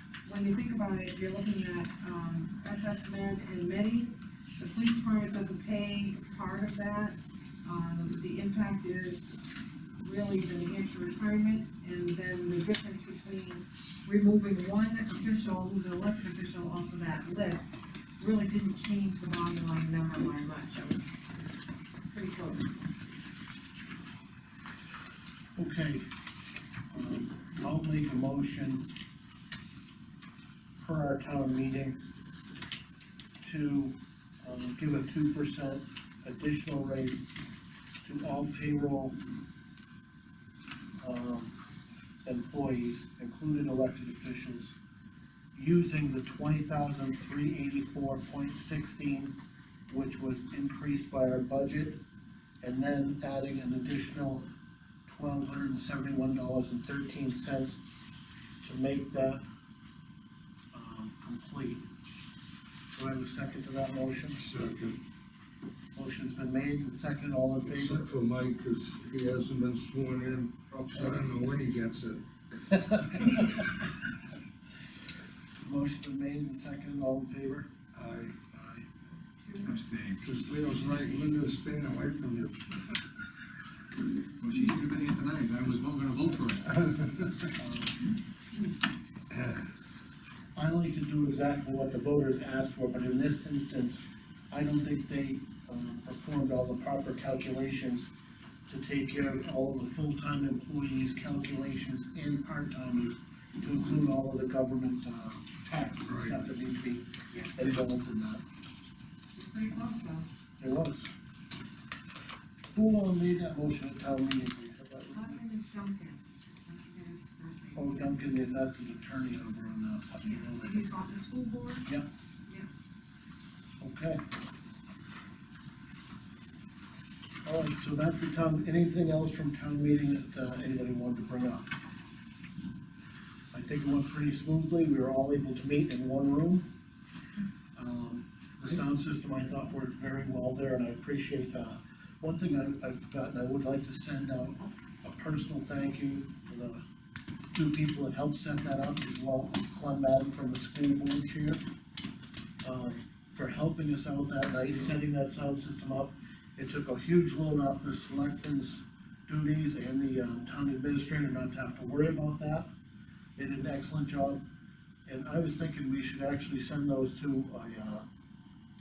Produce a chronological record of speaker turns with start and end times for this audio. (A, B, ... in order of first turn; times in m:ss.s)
0:00.2-0:09.4 A
0:10.0-0:21.2 A
0:22.0-0:22.8 A
0:25.6-0:26.0 B
0:26.9-0:28.9 B
0:30.8-0:32.0 B
0:33.4-0:37.3 B
0:38.0-0:39.2 B
0:41.0-0:41.6 B
0:42.2-0:44.8 B
0:45.5-0:49.4 B
0:49.9-0:52.0 B
0:52.6-0:54.5 B
0:55.1-0:57.8 B
0:58.6-0:59.4 B
1:00.7-1:01.8 B
1:02.9-1:04.4 B
1:04.4-1:05.0 C
1:06.0-1:08.0 B
1:07.7-1:12.2 C
1:11.0-1:11.3 B
1:12.7-1:13.8 B
1:15.6-1:17.7 B
1:17.9-1:18.4 C
1:18.5-1:18.9 B
1:19.4-1:19.7 A
1:19.6-1:20.2 D
1:20.2-1:22.6 C
1:24.4-1:26.9 D
1:27.6-1:28.0 B
1:30.6-1:38.1 B
1:38.7-1:48.4 B
1:46.1-1:46.4 C
1:49.4-1:50.3 A
1:50.6-1:51.1 B
1:52.7-1:55.4 B
1:55.1-1:58.1 A
1:57.8-2:01.0 B
2:00.2-2:01.9 A
2:03.8-2:04.2 B
2:07.4-2:11.7 B
2:13.5-2:16.7 B
2:17.8-2:26.8 B
2:27.5-2:31.6 B
2:32.6-2:42.7 B
2:43.4-2:44.4 B
2:45.1-2:48.0 B